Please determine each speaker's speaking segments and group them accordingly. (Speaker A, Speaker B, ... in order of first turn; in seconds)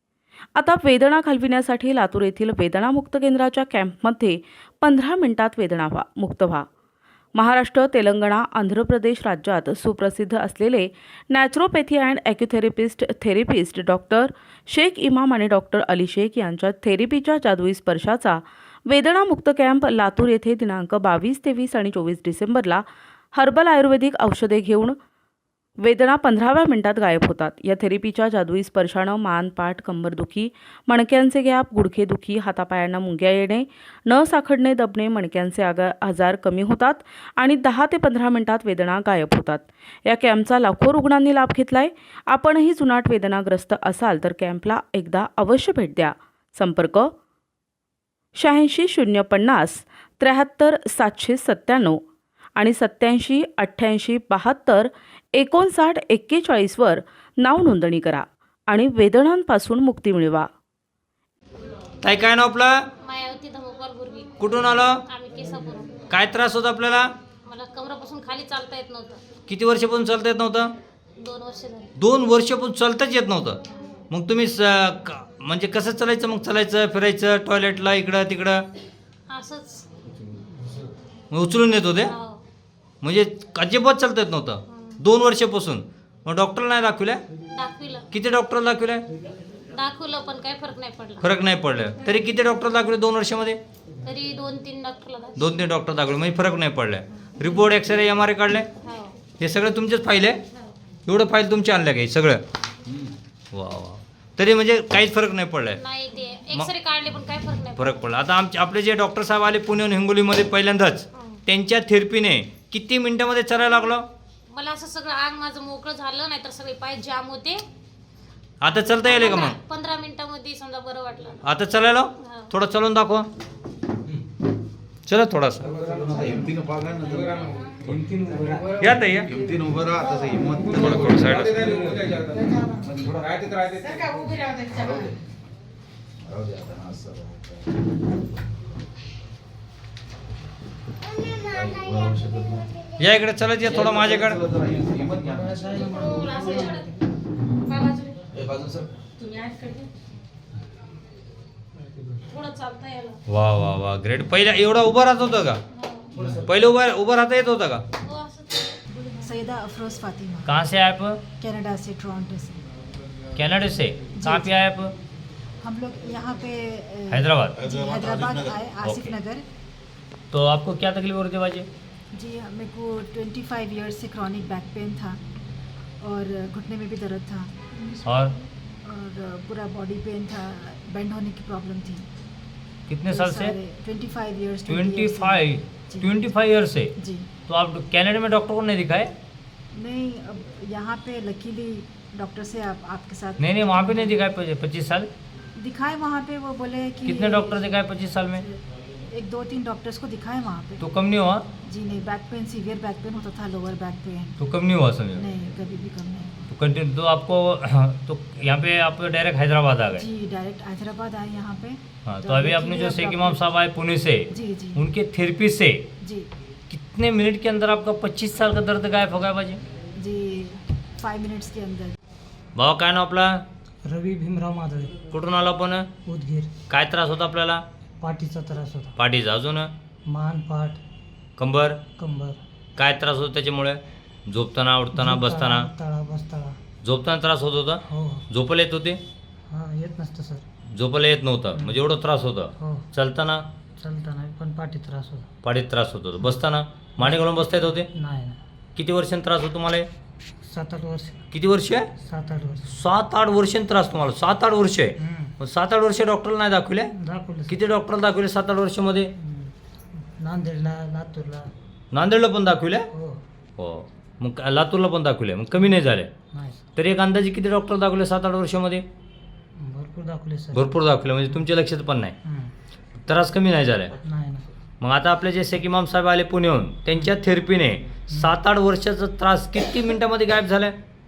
Speaker A: 0.6-6.7, 7.3-25.0, 25.8-47.1, 48.3-52.0, 52.6-60.5
Speaker B: 62.0-62.9, 64.4-65.0, 66.1-67.1, 69.5-70.7, 72.0-73.6, 74.1-78.7, 81.3-82.1, 83.0-87.2, 88.1-89.0, 91.2-93.6, 95.4-98.7, 99.4-100.4, 101.0-102.4, 103.5-105.8, 107.8-114.0, 118.6-119.6, 121.4-123.3, 125.1-125.8, 128.7-129.3, 130.7-131.8, 143.0-144.5, 153.3-155.6, 156.4-157.8, 160.5-161.2, 163.3-164.9, 167.1-167.6, 168.8-169.1, 170.3-171.7, 178.0-178.3, 182.9-183.5, 184.7-186.9, 187.5-189.1, 193.4-195.1, 197.1-198.4, 200.8-201.4, 204.4-205.2, 206.5-210.0, 212.1-215.8, 216.7-219.6, 222.5-223.4, 225.1-225.9, 226.7-227.6, 229.0-229.7, 231.4-231.8, 232.8-235.7, 236.8-239.0, 240.7-243.4, 245.4-247.9, 248.8-249.9, 251.3-251.9, 252.7-256.9, 257.5-259.1, 261.9-262.9, 263.6-266.1, 266.8-268.8, 270.5-272.1, 273.0-273.9, 274.8-280.7
Speaker C: 63.0-64.5, 65.1-66.0, 67.4-69.2, 71.2-71.9, 79.3-79.8, 82.0-82.4, 84.7-85.0, 87.5-88.1, 89.7-91.3, 94.0-95.4, 98.8-99.2, 105.8-108.0, 111.1-111.4, 114.5-117.6, 119.0-121.4, 122.2-122.5, 145.7-146.9, 147.6-148.2, 149.2-149.9, 152.3-153.2, 155.7-156.2, 158.0-158.8
Speaker D: 125.8-127.9, 129.3-132.0, 132.7-135.1, 136.2-137.6, 141.5-142.7, 143.7-145.9, 148.3-148.9, 167.6-168.5
Speaker E: 145.5-146.8, 223.8-225.0, 226.1-226.5, 228.0-228.9, 230.1-230.8, 232.0-232.4, 234.9-236.6, 237.9-238.2, 239.5-240.4, 241.5-241.8, 242.6-242.9, 243.8-245.3, 247.0-248.4, 250.4-251.2, 252.0-252.7, 255.0-255.3, 256.9-257.6, 259.2-261.5, 262.9-263.2, 266.3-266.6, 269.6-270.8, 272.2-272.5, 274.0-274.4, 278.1-278.3
Speaker F: 159.1-160.5, 161.4-162.6, 164.1-164.6, 165.6-169.4, 172.1-175.2, 176.0-182.0, 183.1-186.3, 186.9-187.3, 189.7-194.2, 195.5-200.8, 201.6-204.4, 205.1-206.5, 209.9-213.4, 214.3-214.8, 216.0-216.3, 220.0-221.9